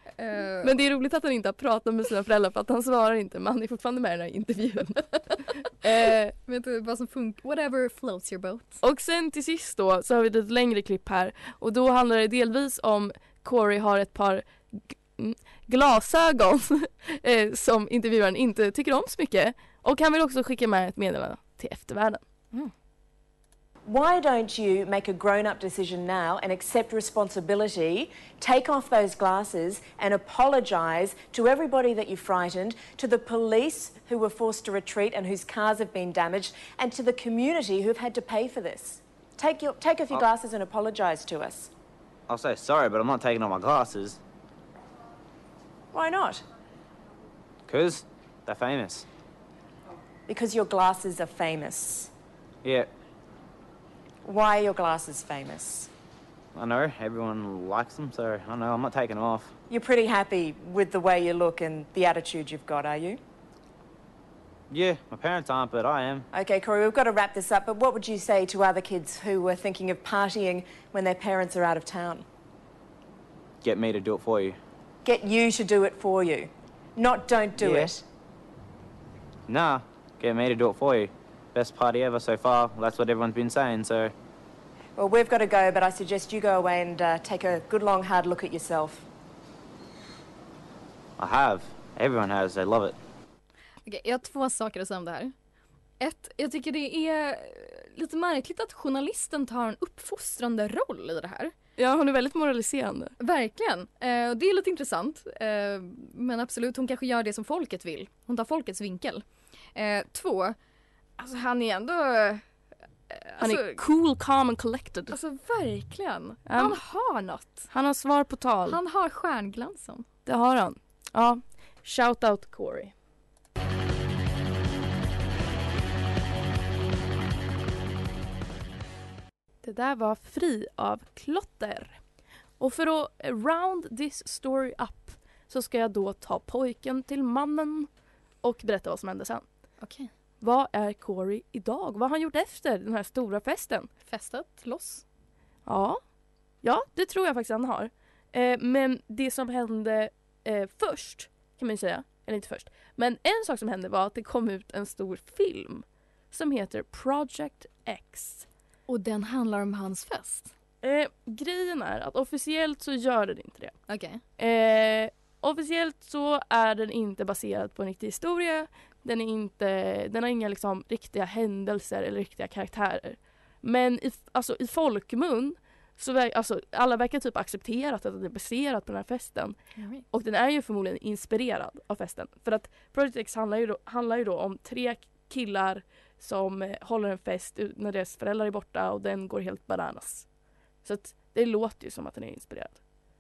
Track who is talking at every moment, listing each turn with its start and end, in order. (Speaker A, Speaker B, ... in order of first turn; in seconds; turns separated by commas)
Speaker A: 0.2-0.7, Speaker B: 0.3-6.3, Speaker A: 6.5-8.8, Speaker B: 8.8-22.2, Speaker C: 23.8-41.7, Speaker D: 42.3-44.2, Speaker C: 45.9-46.4, Speaker D: 47.7-49.0, Speaker C: 50.3-52.1, Speaker D: 52.6-52.9, Speaker C: 54.2-55.9, Speaker D: 56.5-59.5, Speaker C: 59.7-63.2, Speaker D: 64.7-66.3, Speaker C: 66.3-72.2, Speaker D: 73.6-74.6, Speaker C: 75.0-78.0, Speaker D: 77.6-77.9, Speaker D: 79.5-84.1, Speaker C: 85.0-89.0, Speaker D: 91.2-93.0, Speaker A: 93.8-95.3, Speaker A: 96.0-101.5, Speaker B: 101.8-103.1, Speaker A: 103.2-110.5, Speaker A: 111.2-112.4, Speaker A: 113.1-113.8, Speaker B: 113.4-115.2, Speaker A: 115.1-117.7, Speaker B: 116.5-116.8, Speaker B: 117.7-118.8, Speaker A: 118.7-120.1, Speaker B: 120.2-122.9, Speaker B: 129.6-132.0, Speaker B: 132.6-137.9, Speaker B: 138.4-139.4, Speaker A: 139.8-140.1, Speaker B: 140.4-143.9, Speaker A: 144.1-145.0, Speaker B: 145.7-146.0, Speaker B: 146.6-158.5, Speaker A: 158.9-160.5, Speaker B: 160.8-163.8, Speaker A: 163.9-164.2, Speaker B: 164.4-179.6, Speaker A: 179.8-180.0, Speaker B: 180.1-190.3, Speaker B: 190.8-192.8